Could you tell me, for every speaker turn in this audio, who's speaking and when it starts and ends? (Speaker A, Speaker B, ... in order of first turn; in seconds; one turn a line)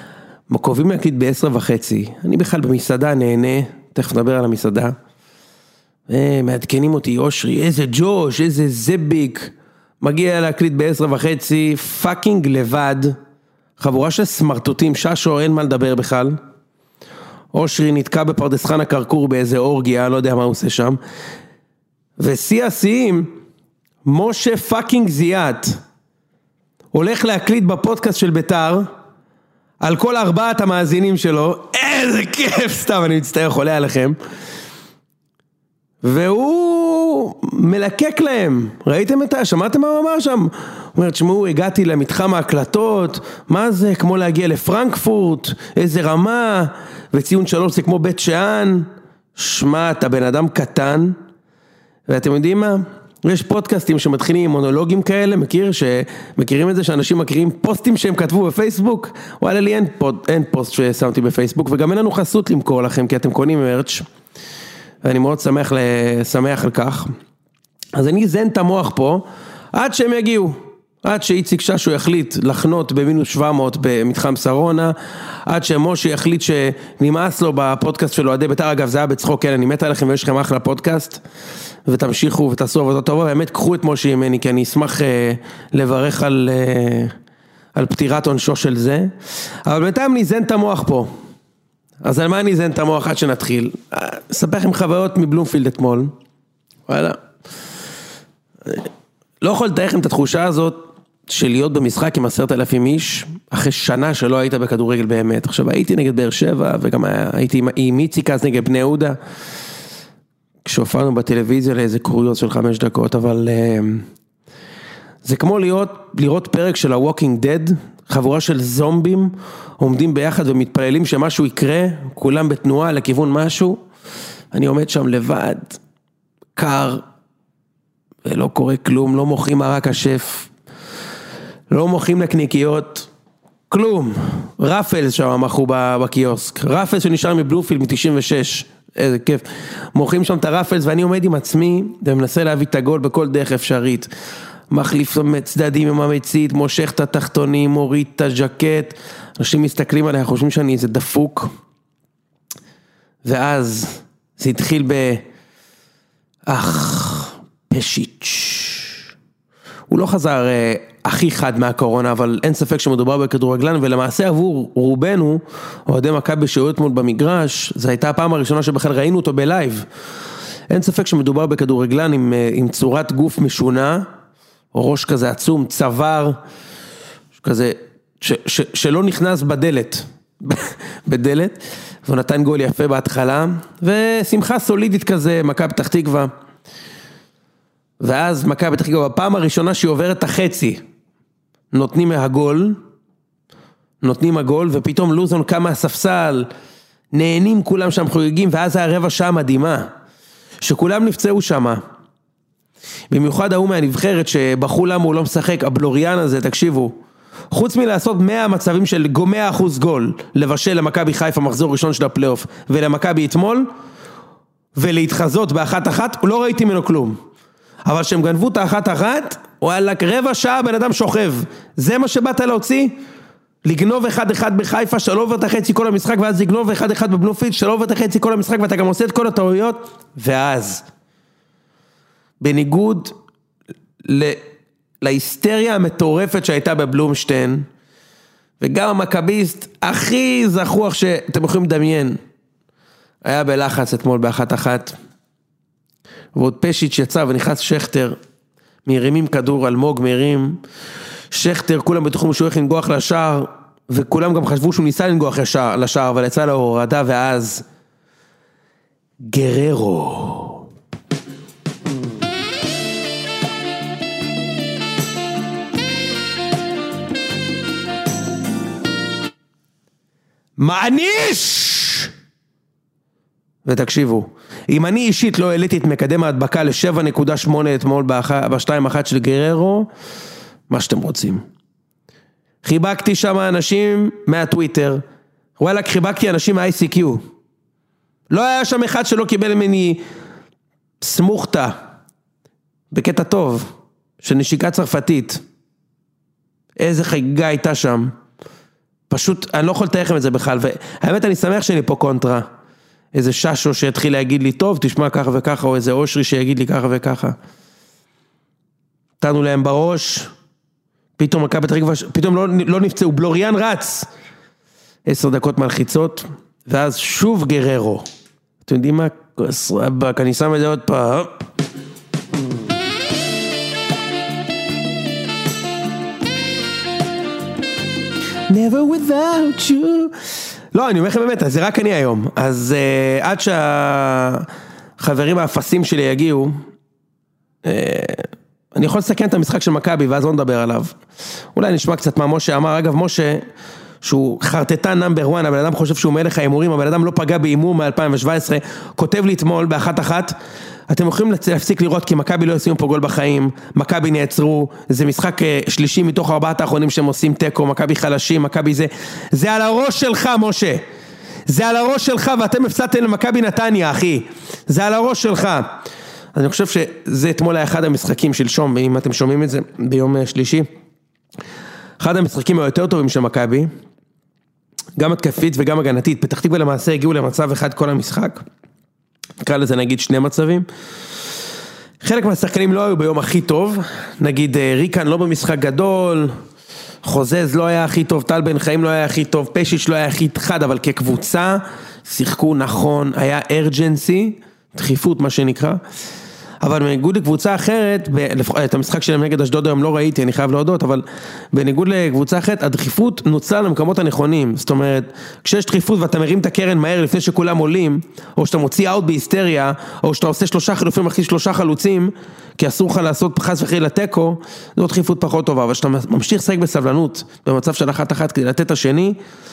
Speaker A: 0.5-5.0
Speaker A: 6.1-13.2
Speaker A: 13.8-16.4
Speaker A: 17.5-21.0
Speaker A: 22.2-23.3
Speaker A: 24.0-25.8
Speaker A: 26.9-28.9
Speaker A: 29.8-34.2
Speaker A: 36.0-51.2
Speaker A: 52.1-64.0
Speaker A: 65.0-67.1
Speaker A: 68.0-75.0
Speaker A: 75.5-81.2
Speaker A: 81.9-87.1
Speaker A: 87.8-89.1
Speaker A: 89.6-91.1
Speaker A: 92.0-96.1
Speaker A: 96.9-97.2
Speaker A: 99.4-109.2
Speaker A: 110.6-114.1
Speaker A: 115.2-123.8
Speaker A: 124.5-125.8
Speaker A: 126.6-127.0
Speaker A: 128.2-130.5
Speaker A: 131.7-133.1
Speaker A: 133.7-144.1
Speaker A: 144.7-151.5
Speaker A: 153.2-155.2
Speaker A: 156.5-158.9
Speaker A: 159.9-169.8
Speaker A: 170.7-174.1
Speaker A: 174.7-176.4
Speaker A: 177.4-186.3
Speaker A: 188.0-190.8
Speaker A: 191.7-192.8
Speaker A: 194.0-196.5
Speaker A: 197.1-199.9
Speaker A: 200.6-201.8
Speaker A: 203.1-207.0
Speaker A: 207.5-213.7
Speaker A: 214.8-217.2
Speaker A: 217.8-222.9
Speaker A: 223.6-230.8
Speaker A: 232.4-233.2
Speaker A: 234.0-234.4
Speaker A: 235.0-237.7
Speaker A: 238.6-242.2
Speaker A: 243.2-244.9
Speaker A: 246.3-248.2
Speaker A: 248.8-250.6
Speaker A: 251.3-257.6
Speaker A: 259.2-260.6
Speaker A: 270.6-272.1
Speaker A: 273.6-279.9
Speaker A: 280.7-281.4
Speaker A: 282.6-285.0
Speaker A: 285.6-287.2
Speaker A: 288.3-290.0
Speaker A: 291.0-291.8
Speaker A: 292.9-295.4
Speaker A: 296.8-298.1
Speaker A: 299.1-302.4
Speaker A: 303.1-307.4
Speaker A: 309.2-310.3
Speaker A: 311.2-314.1
Speaker A: 315.1-318.1
Speaker A: 318.6-321.4
Speaker A: 328.5-330.1
Speaker A: 330.7-334.5
Speaker A: 335.0-336.6
Speaker A: 337.6-340.9
Speaker A: 341.6-343.4
Speaker A: 344.0-350.4
Speaker A: 350.9-360.8
Speaker A: 361.5-365.7
Speaker A: 366.3-370.7
Speaker A: 372.0-373.7
Speaker A: 375.0-378.4
Speaker A: 379.4-380.7
Speaker A: 382.0-386.3
Speaker A: 387.0-395.8
Speaker A: 396.6-419.2